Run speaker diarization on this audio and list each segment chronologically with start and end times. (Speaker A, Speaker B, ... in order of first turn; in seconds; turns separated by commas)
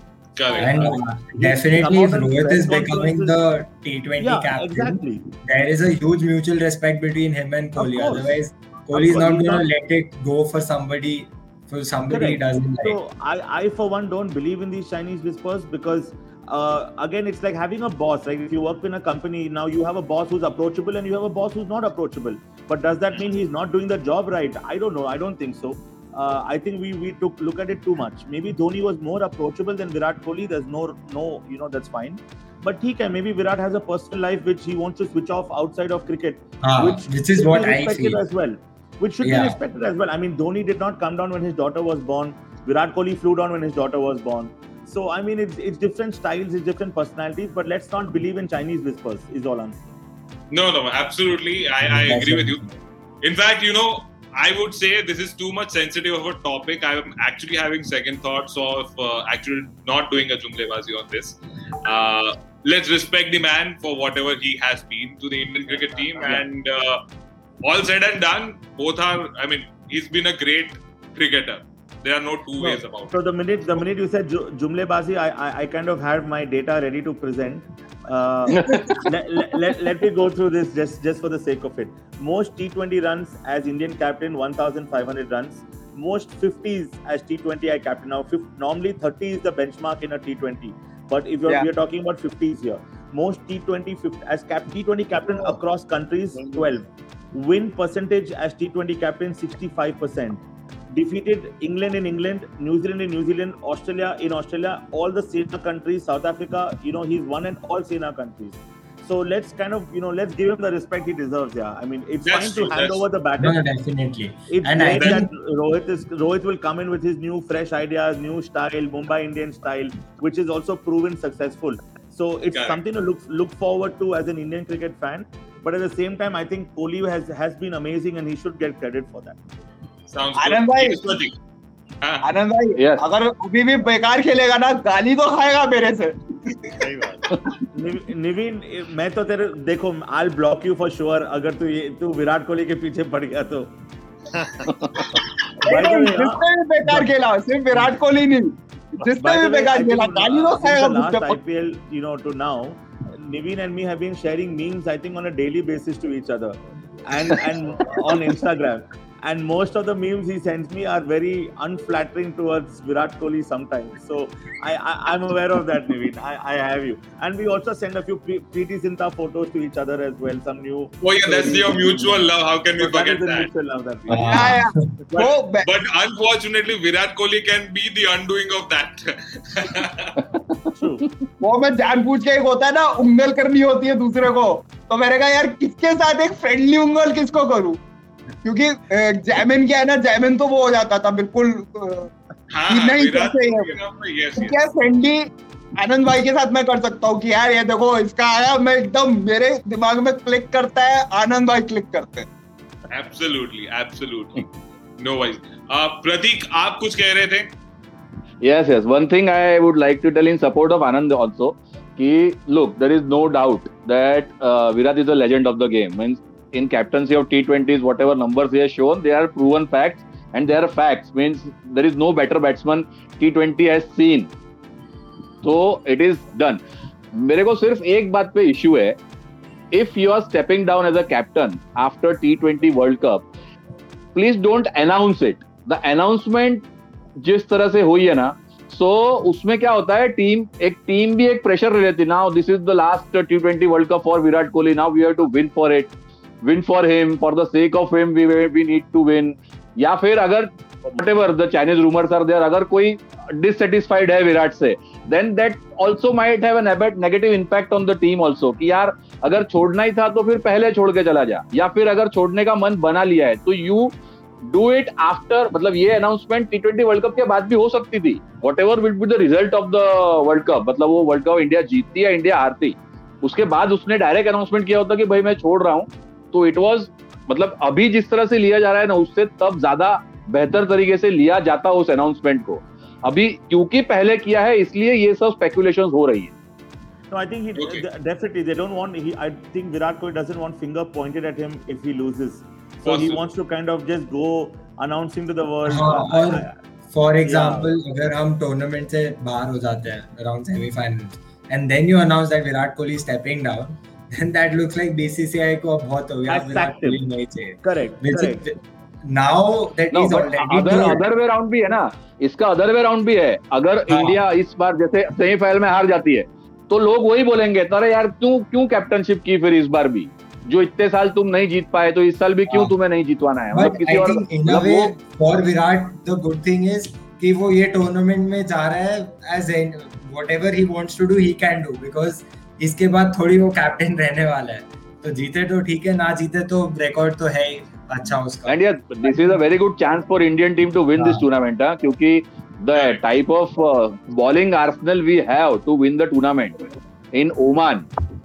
Speaker A: 0.3-0.9, Speaker B: 0.5-0.8, Speaker C: 0.5-13.0, Speaker B: 1.4-3.4, Speaker B: 4.2-5.3, Speaker B: 7.8-8.4, Speaker B: 8.9-9.7, Speaker B: 12.1-49.9, Speaker C: 36.6-38.2, Speaker C: 39.2-39.6, Speaker A: 50.5-52.6, Speaker C: 51.8-52.7, Speaker A: 53.2-67.0, Speaker D: 65.7-66.0, Speaker A: 67.6-73.2, Speaker B: 72.6-113.6, Speaker E: 78.5-79.0, Speaker D: 96.3-96.7, Speaker A: 112.2-113.0, Speaker C: 113.4-115.3, Speaker B: 114.5-129.4, Speaker A: 115.0-115.2, Speaker A: 122.5-122.8, Speaker A: 130.1-131.3, Speaker F: 130.4-131.0, Speaker F: 132.2-136.6, Speaker E: 132.8-133.0, Speaker D: 136.8-137.4, Speaker B: 137.7-143.7, Speaker D: 144.3-145.2, Speaker E: 144.7-145.0, Speaker B: 145.6-147.1, Speaker F: 145.6-151.4, Speaker B: 149.2-174.5, Speaker A: 171.0-173.5, Speaker C: 174.1-174.9, Speaker F: 174.3-175.7, Speaker A: 175.2-180.1, Speaker E: 180.2-180.7, Speaker B: 180.8-181.0, Speaker F: 181.4-187.8, Speaker F: 188.4-192.1, Speaker A: 192.5-194.6, Speaker F: 192.7-193.8, Speaker F: 194.4-195.3, Speaker F: 195.8-202.3, Speaker A: 202.9-207.5, Speaker E: 208.4-224.3, Speaker E: 225.4-226.6, Speaker E: 227.1-229.0, Speaker E: 229.7-233.3, Speaker E: 234.1-236.6, Speaker E: 237.2-263.9, Speaker E: 264.5-286.3, Speaker B: 287.1-296.6, Speaker A: 287.6-287.9, Speaker A: 292.8-293.2, Speaker C: 295.6-311.0, Speaker B: 297.2-297.7, Speaker B: 306.3-307.0, Speaker B: 307.6-308.5, Speaker E: 309.9-324.9, Speaker C: 313.9-314.1, Speaker C: 322.5-322.7, Speaker C: 323.5-339.1, Speaker E: 338.5-347.9, Speaker C: 340.9-341.2, Speaker A: 342.7-343.0